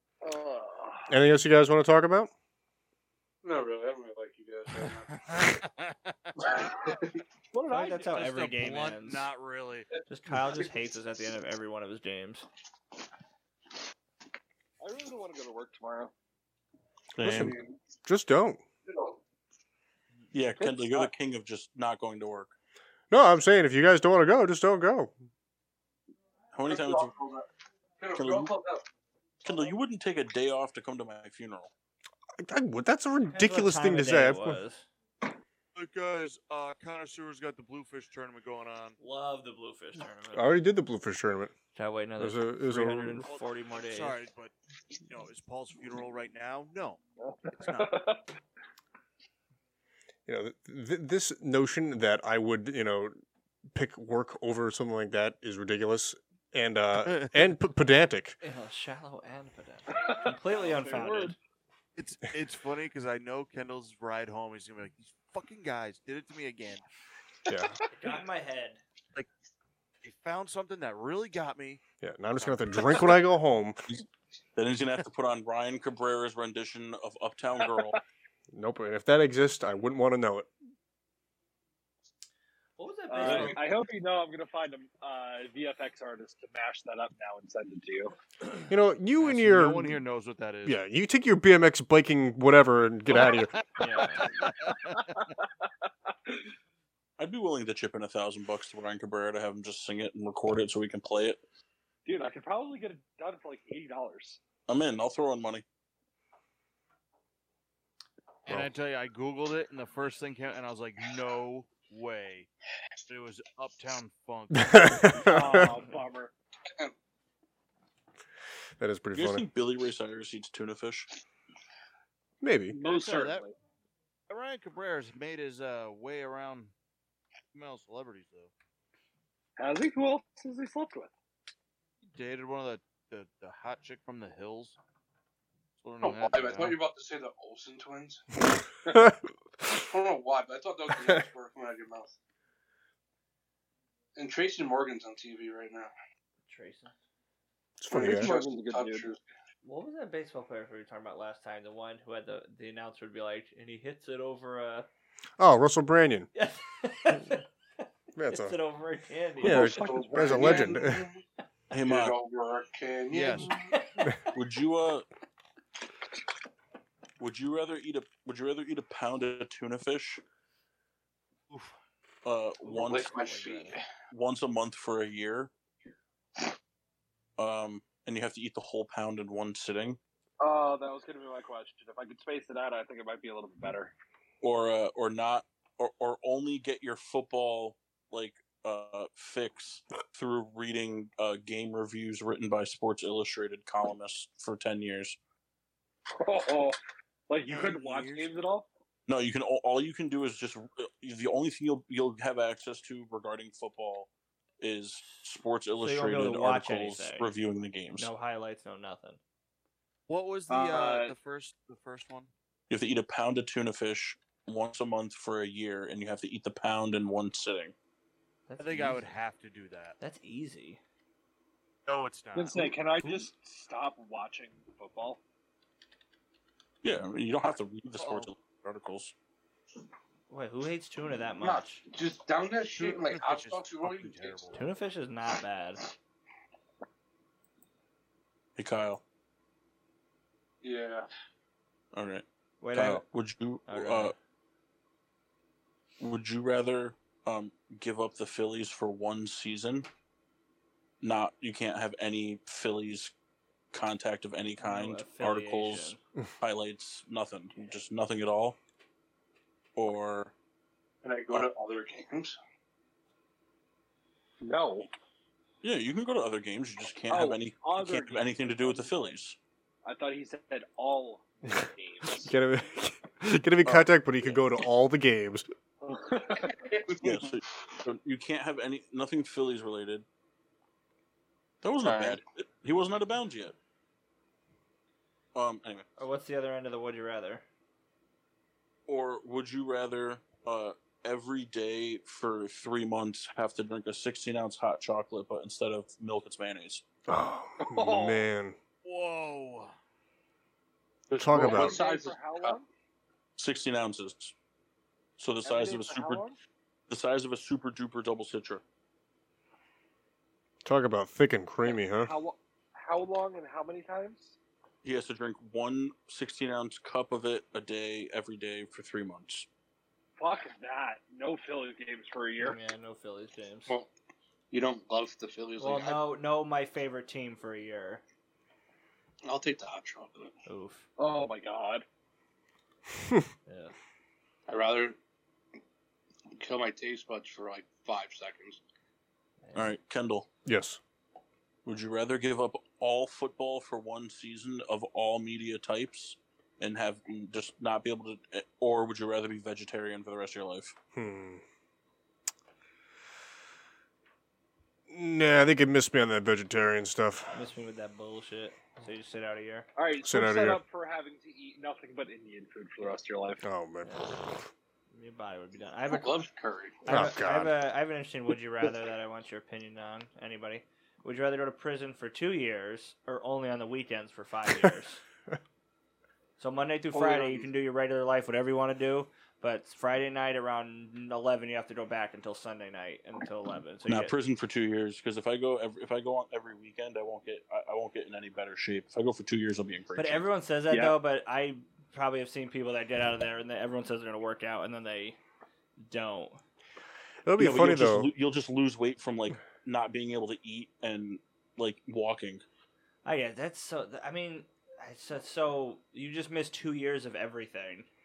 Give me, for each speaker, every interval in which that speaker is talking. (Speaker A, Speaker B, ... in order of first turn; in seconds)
Speaker A: 0.2-1.1, 7.5-8.2, 14.8-16.1, 20.6-21.1, 47.2-48.2, 60.0-61.4, 83.1-88.1, 94.5-95.3, 96.1-96.4, 102.0-104.4, 115.2-116.3, 122.7-123.5, 129.6-131.1, 147.9-149.1, 159.4-160.7, 180.4-183.9, 196.1-196.8, 197.3-198.7, 210.5-211.1, 222.3-225.2, 264.4-264.9, 267.1-269.1, 269.8-272.3, 275.8-276.6, 297.6-298.2, 301.3-302.6, 305.4-306.4, 311.6-314.4, 320.2-322.6, 331.0-331.8, 359.8-363.4, 390.7-390.9
Speaker B: 1.1-2.3, 17.2-18.6, 23.1-25.1, 32.4-34.6, 40.3-41.5, 42.2-43.2, 50.2-53.1, 53.7-58.4, 67.5-67.8, 72.0-73.8, 78.5-80.5, 88.7-90.0, 90.7-93.5, 114.5-115.7, 118.8-119.5, 122.4-122.8, 147.8-148.3, 155.4-156.3, 158.2-158.6, 159.4-161.1, 271.5-275.5, 297.1-298.6, 301.1-301.8, 310.6-312.1, 333.0-333.2, 340.4-340.8, 350.9-351.4, 354.9-357.4, 360.0-360.6, 363.4-364.5, 366.9-367.5, 397.2-398.1
Speaker C: 3.4-5.1, 6.4-7.2, 17.3-17.8, 18.9-19.2, 26.6-27.5, 28.0-28.8, 122.8-123.3, 136.0-138.2, 139.7-142.1, 144.2-145.9, 147.9-149.2, 159.5-161.2, 161.8-163.7, 172.7-173.8, 231.4-234.5, 240.6-241.1, 261.0-262.4, 276.5-277.3, 281.8-282.2, 301.1-302.6, 324.5-326.0, 329.2-330.3, 334.5-335.0, 336.4-338.6, 365.9-366.8, 376.9-377.4
Speaker D: 4.9-6.5, 8.0-9.9, 35.7-39.0, 43.3-44.5, 45.0-47.0, 47.5-47.9, 57.0-57.3, 62.0-66.8, 70.0-71.8, 72.3-73.1, 89.2-90.8, 93.1-95.3, 108.5-112.5, 113.0-115.3, 122.8-123.4, 124.3-126.7, 127.5-128.5, 132.1-134.8, 135.8-136.8, 163.1-163.5, 171.5-171.7, 197.4-198.3, 210.1-212.3, 218.6-219.9, 221.8-222.7, 228.0-228.3, 232.7-234.7, 298.8-299.7
Speaker E: 7.7-9.3, 10.1-12.5, 33.2-34.9, 39.0-40.5, 41.7-44.2, 58.4-61.4, 67.9-68.8, 82.8-83.6, 93.8-94.3, 146.4-146.9, 149.6-154.9, 156.3-157.4, 158.3-159.7, 163.7-164.0, 172.8-173.8, 205.8-207.3, 207.9-209.2, 218.5-219.0, 220.0-220.8, 230.3-231.8, 234.5-235.9, 242.6-243.0, 243.7-244.1, 254.6-256.0, 286.0-287.4, 322.4-323.8, 325.6-328.0, 330.4-330.9, 333.5-333.7, 339.4-339.7, 357.3-359.6, 363.8-364.1, 364.9-366.1, 366.8-375.0, 376.4-384.1, 389.9-395.2, 395.8-396.4, 403.0-407.9
Speaker F: 17.2-17.6, 20.3-22.5, 26.5-27.1, 28.1-28.5, 29.4-31.7, 74.5-78.0, 97.2-101.4, 104.7-105.6, 119.1-121.1, 161.7-162.2, 164.3-165.1, 167.2-170.2, 172.2-173.1, 174.1-175.5, 177.4-180.0, 184.4-195.2, 199.1-204.1, 204.6-208.1, 212.7-217.7, 226.8-229.1, 238.6-239.0, 241.9-244.1, 246.0-249.9, 251.0-253.1, 253.7-258.6, 259.8-260.3, 265.6-269.4, 277.0-280.1, 281.6-283.6, 285.3-285.9, 288.9-296.8, 303.4-304.3, 305.2-306.3, 306.9-308.6, 314.8-319.5, 339.5-340.3, 341.6-350.7, 383.9-390.2, 397.4-402.4